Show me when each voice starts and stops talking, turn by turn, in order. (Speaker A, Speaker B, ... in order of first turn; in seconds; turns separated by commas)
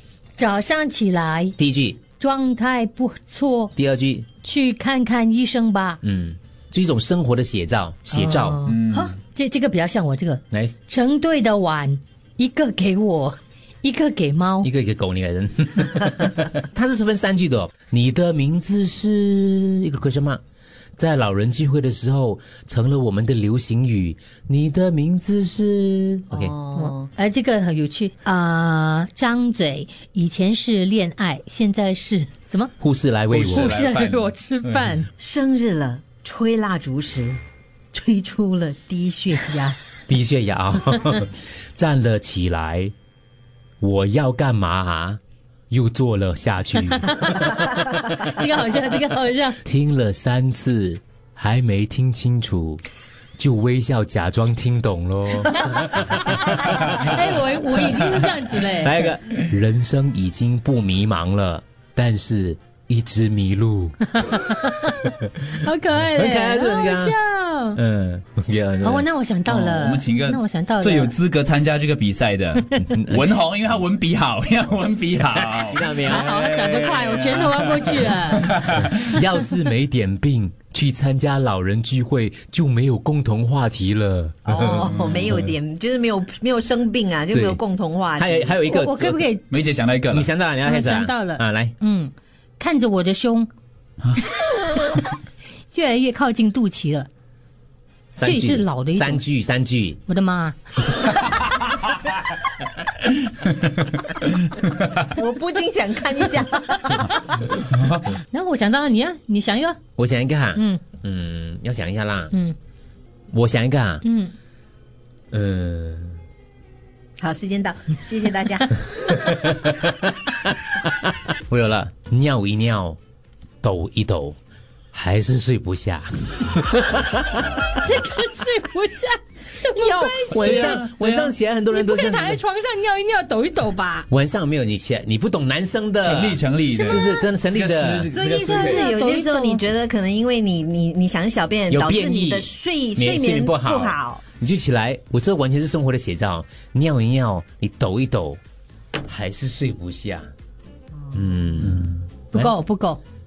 Speaker A: 0.4-1.6, Speaker B: 1.6-2.0, Speaker A: 2.2-3.7, Speaker B: 3.8-4.3, Speaker A: 4.4-6.0, Speaker B: 6.0-8.6, Speaker A: 8.1-14.7, Speaker C: 8.7-9.2, Speaker B: 14.6-20.4, Speaker B: 21.0-26.5, Speaker D: 26.3-27.1, Speaker A: 26.8-32.7, Speaker B: 32.8-33.8, Speaker C: 33.3-34.8, Speaker A: 33.5-35.1, Speaker D: 35.2-37.4, Speaker D: 37.9-39.8, Speaker B: 40.1-42.9, Speaker B: 43.8-48.3, Speaker A: 47.1-47.5, Speaker A: 48.2-49.6, Speaker B: 49.6-52.8, Speaker B: 53.4-57.2, Speaker A: 56.2-58.9, Speaker B: 58.6-64.0, Speaker A: 64.2-67.8, Speaker B: 66.1-67.2, Speaker B: 67.8-69.1, Speaker A: 68.8-71.2, Speaker C: 69.5-79.0, Speaker B: 72.8-73.2, Speaker B: 75.7-76.3, Speaker A: 76.0-78.7, Speaker B: 78.7-84.4, Speaker D: 84.5-88.5, Speaker B: 87.3-87.6, Speaker B: 88.2-89.3, Speaker A: 88.7-89.5, Speaker C: 89.5-90.3, Speaker B: 90.1-91.8, Speaker A: 90.6-93.5, Speaker A: 94.4-95.1, Speaker A: 95.7-97.1, Speaker B: 98.2-100.0, Speaker A: 98.2-99.2, Speaker A: 100.1-101.2, Speaker D: 105.0-107.1, Speaker A: 108.3-109.8, Speaker B: 110.0-112.3, Speaker A: 110.6-110.8, Speaker B: 113.3-114.0, Speaker A: 114.0-114.3, Speaker B: 115.3-116.2, Speaker D: 117.2-118.8, Speaker B: 119.1-120.0, Speaker B: 120.7-123.0, Speaker B: 123.6-124.4, Speaker B: 124.9-127.4, Speaker A: 127.7-130.9, Speaker B: 129.8-132.4, Speaker C: 130.3-131.3, Speaker A: 131.7-134.1, Speaker B: 134.1-138.1, Speaker C: 136.0-138.8, Speaker D: 138.1-144.2, Speaker A: 138.2-139.6, Speaker B: 141.7-148.4, Speaker B: 149.1-150.3, Speaker B: 151.1-152.5, Speaker A: 152.3-153.0